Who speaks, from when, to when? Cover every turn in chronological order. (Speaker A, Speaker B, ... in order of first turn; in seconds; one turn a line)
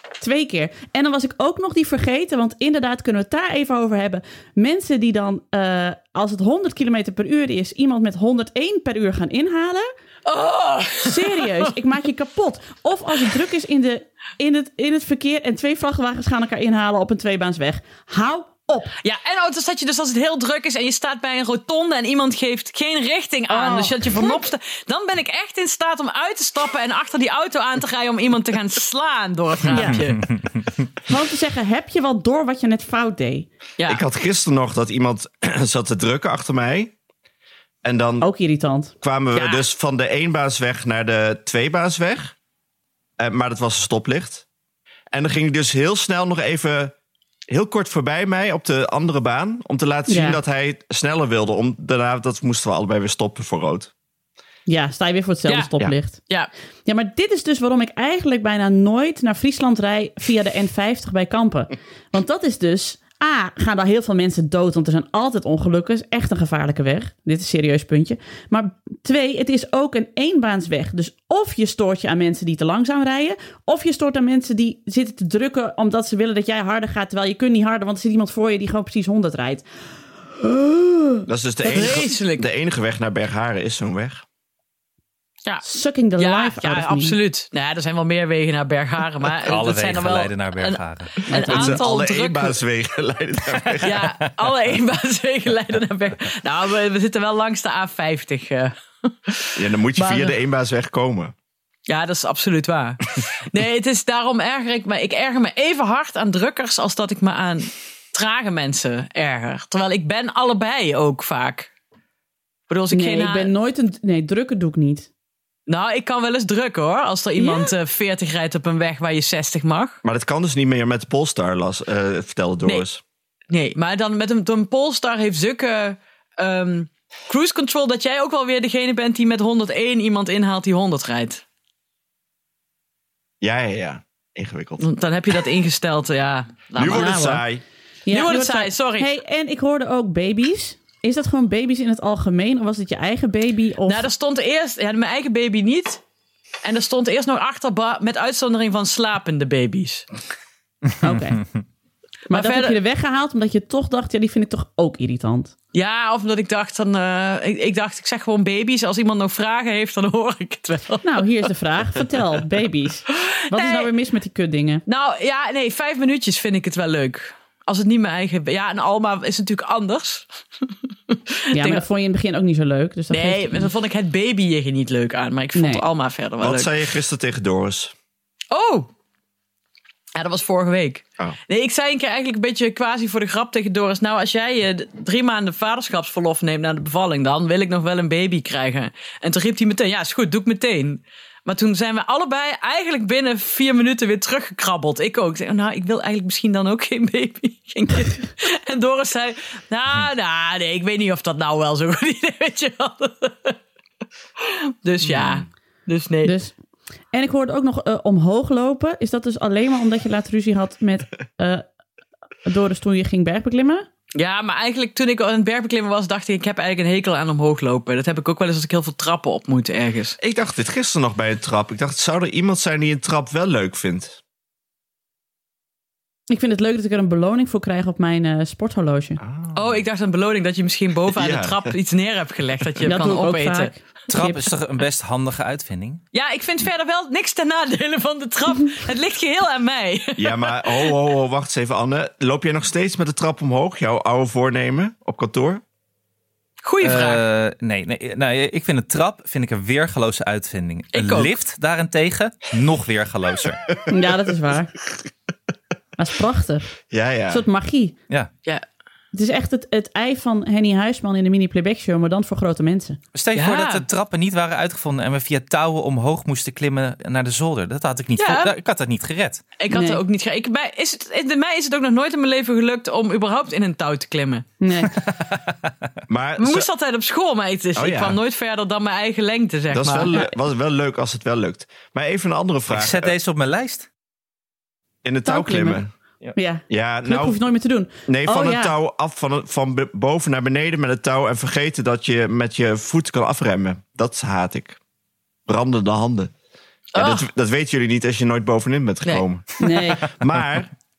Speaker A: 0.2-9.9
Speaker B: 10.2-11.7
Speaker A: 11.0-18.9
Speaker B: 19.0-30.2
Speaker A: 23.5-24.4
Speaker A: 29.7-30.1
Speaker A: 31.1-33.5
Speaker C: 33.9-37.0
Speaker C: 37.8-38.3
Speaker A: 38.2-38.9
Speaker C: 39.0-42.4
Speaker B: 39.4-39.6
Speaker C: 43.2-44.5
Speaker C: 45.1-47.0
Speaker C: 47.5-53.9
Speaker A: 50.1-50.4
Speaker A: 54.7-56.2
Speaker A: 56.9-79.7
Speaker A: 80.4-81.3
Speaker C: 81.3-84.2
Speaker B: 81.7-82.5
Speaker A: 85.6-87.2
Speaker B: 86.2-92.6
Speaker D: 89.5-91.2
Speaker A: 91.3-91.7
Speaker C: 91.3-94.1
Speaker B: 93.8-100.3
Speaker C: 99.5-101.3
Speaker B: 101.9-111.7
Speaker B: 112.7-113.5
Speaker A: 112.9-115.1
Speaker B: 115.7-120.0
Speaker A: 117.4-117.7
Speaker C: 120.0-123.0
Speaker B: 123.5-131.4
Speaker C: 133.4-134.8
Speaker B: 134.8-137.2
Speaker C: 136.8-137.6
Speaker A: 136.9-137.4
Speaker A: 138.1-144.1
Speaker B: 138.1-139.1
Speaker B: 143.9-146.0
Speaker B: 146.6-150.1
Speaker A: 151.0-151.5
Speaker B: 152.3-152.8
Speaker A: 152.3-155.5
Speaker B: 155.7-161.3
Speaker A: 161.0-164.8
Speaker B: 163.2-163.9
Speaker B: 164.9-171.8
Speaker A: 171.5-173.7
Speaker B: 173.1-176.7
Speaker A: 175.6-175.9
Speaker C: 176.4-177.9
Speaker B: 178.5-178.9
Speaker B: 180.2-203.6
Speaker B: 204.4-206.3
Speaker C: 205.1-205.4
Speaker A: 206.2-206.6
Speaker A: 207.1-211.6
Speaker A: 212.5-213.9
Speaker B: 214.2-220.2
Speaker C: 220.2-224.2
Speaker A: 226.3-229.2
Speaker C: 229.2-229.6
Speaker B: 229.5-233.7
Speaker C: 231.1-231.7
Speaker A: 232.9-234.5
Speaker D: 234.1-236.0
Speaker B: 236.1-240.9
Speaker C: 240.2-245.6
Speaker B: 246.6-247.2
Speaker D: 246.8-253.6
Speaker B: 250.9-251.4
Speaker A: 253.9-254.7
Speaker A: 256.0-256.7
Speaker C: 256.9-257.4
Speaker A: 257.3-257.9
Speaker A: 259.1-263.0
Speaker D: 263.1-269.4
Speaker B: 263.4-263.9
Speaker B: 268.2-268.6
Speaker B: 269.6-274.5
Speaker A: 269.7-270.0
Speaker A: 274.6-274.9
Speaker D: 274.9-275.5
Speaker C: 276.1-276.7
Speaker B: 276.4-280.1
Speaker C: 277.8-278.2
Speaker C: 279.7-283.1
Speaker D: 282.7-283.9
Speaker C: 285.0-285.9
Speaker A: 285.2-285.8
Speaker A: 286.4-288.7
Speaker C: 286.7-287.4
Speaker C: 288.1-294.8
Speaker C: 295.5-296.3
Speaker B: 296.9-297.3
Speaker C: 297.0-300.7
Speaker A: 299.6-300.1